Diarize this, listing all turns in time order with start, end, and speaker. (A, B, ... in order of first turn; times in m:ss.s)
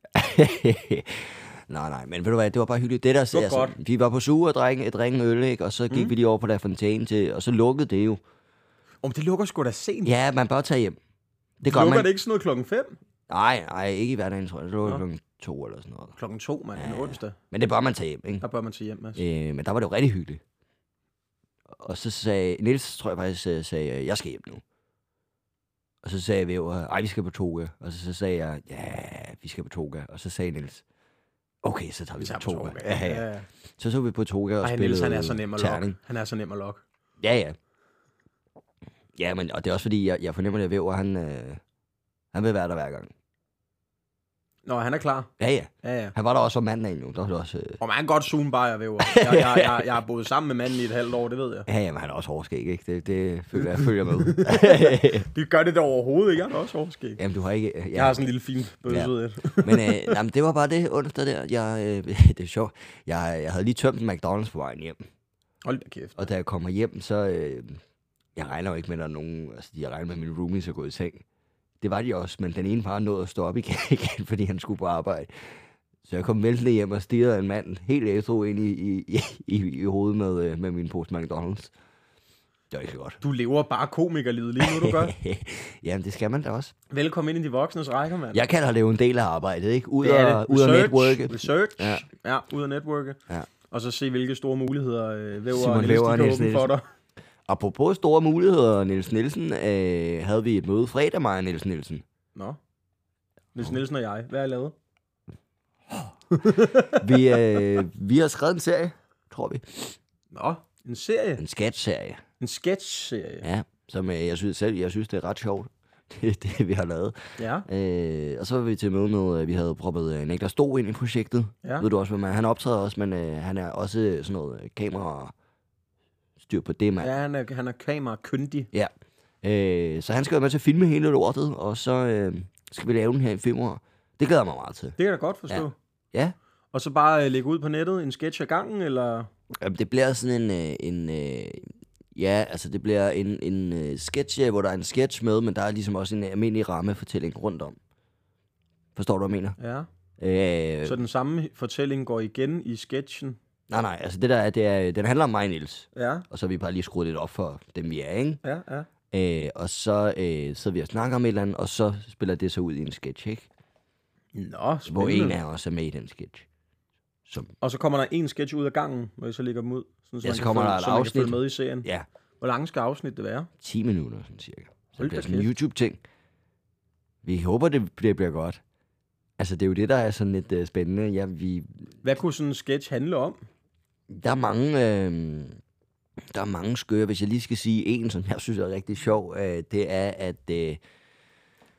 0:00.1-0:08.2 A
0:03.3-0:03.7 B
0:09.0-0:10.1 B
0:10.0-0:11.0 A
0:11.6-0:12.1 A
0:11.6-0:13.0 B
0:13.3-0:16.2 A
0:16.2-0:17.4 B
0:16.8-0:18.4 A
0:18.4-0:19.2 B
0:19.2-0:20.4 A
0:21.7-0:24.6 A
0:26.0-0:30.8 A
0:31.6-0:36.0 A
0:32.2-0:33.5 B
0:34.6-0:36.8 B
0:37.2-0:37.6 A
0:39.1-0:41.6 A
0:42.3-0:43.1 A
0:44.6-0:45.3 B
0:45.4-0:47.8 A
0:45.8-0:46.1 B
0:47.8-0:51.7 B
0:49.0-0:49.9 A
0:51.7-0:55.3 A
0:54.2-0:57.2 B
0:57.2-0:58.2 A
0:57.9-1:00.2 B
0:58.8-1:05.0 A
1:05.6-1:06.2 B
1:06.2-1:07.8 A
1:08.3-1:11.2 A
1:11.8-1:21.7 A
1:22.7-1:23.2 A
1:23.2-1:25.1 B
1:24.6-1:26.7 A
1:26.9-1:28.4 B
1:28.3-1:32.0 A
1:30.0-1:33.2 B
1:33.7-1:36.8 B
1:35.5-1:36.7 A
1:37.4-1:42.0 A
1:43.5-1:44.7 B
1:46.3-1:47.6 B
1:47.0-1:50.0 A
1:50.3-1:51.4 B
1:51.4-1:52.2 A
1:52.4-1:53.4 B
1:53.4-2:05.3 A
1:57.4-1:57.6 B
2:06.4-2:07.1 A
2:07.0-2:08.7 B
2:08.7-2:15.0 A
2:15.0-2:15.7 B
2:15.5-2:16.3 A
2:16.7-2:19.3 B
2:19.6-2:27.8 A
2:29.0-2:29.6 A
2:29.6-2:29.9 B
2:30.2-2:31.0 A
2:30.8-2:33.4 B
2:33.7-2:38.4 A
2:35.9-2:36.2 B
2:38.4-2:38.9 B
2:39.1-2:43.5 A
2:44.3-2:45.4 B
2:44.9-2:46.4 A
2:47.3-2:47.5 A
2:47.6-2:51.9 B
2:50.2-2:52.0 A
2:52.4-2:53.5 B
2:53.6-2:56.0 A
2:55.0-2:55.5 B
2:57.2-2:58.6 A
2:59.4-3:01.9 A
3:02.0-3:03.4 B
3:04.1-3:05.6 A
3:06.2-3:10.8 A